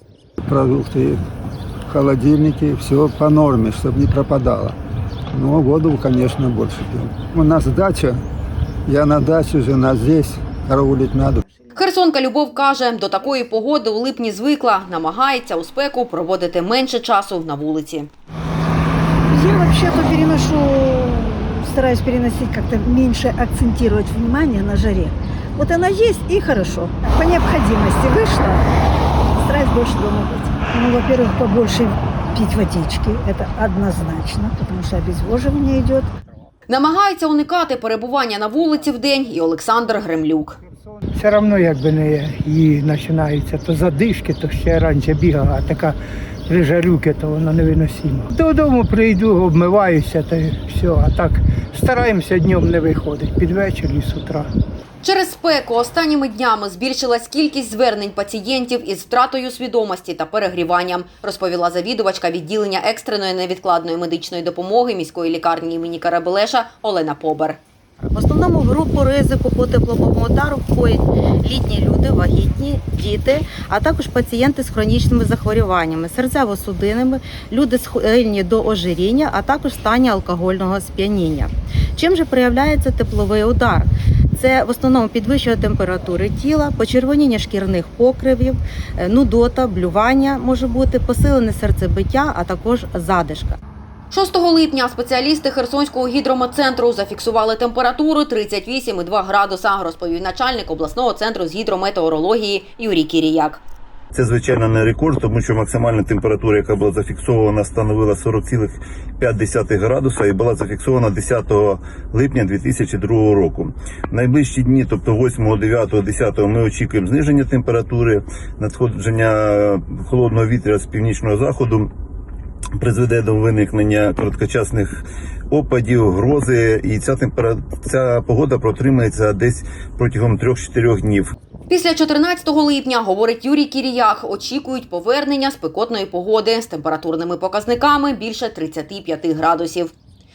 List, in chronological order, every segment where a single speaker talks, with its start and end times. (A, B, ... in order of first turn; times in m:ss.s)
0:00.4-0:01.2 A
0:01.9-0:04.8 A
0:05.3-0:08.2 A
0:08.9-0:11.4 A
0:11.7-0:18.1 B
0:19.3-0:28.6 C
0:29.2-0:36.1 C
0:36.7-0:40.6 B
0:41.1-0:46.0 D
0:46.5-0:54.5 D
0:55.0-1:07.6 B
1:08.1-1:33.6 E
1:34.1-1:43.6 B
1:44.1-2:01.9 F
2:02.8-2:11.3 F
2:11.7-2:19.9 B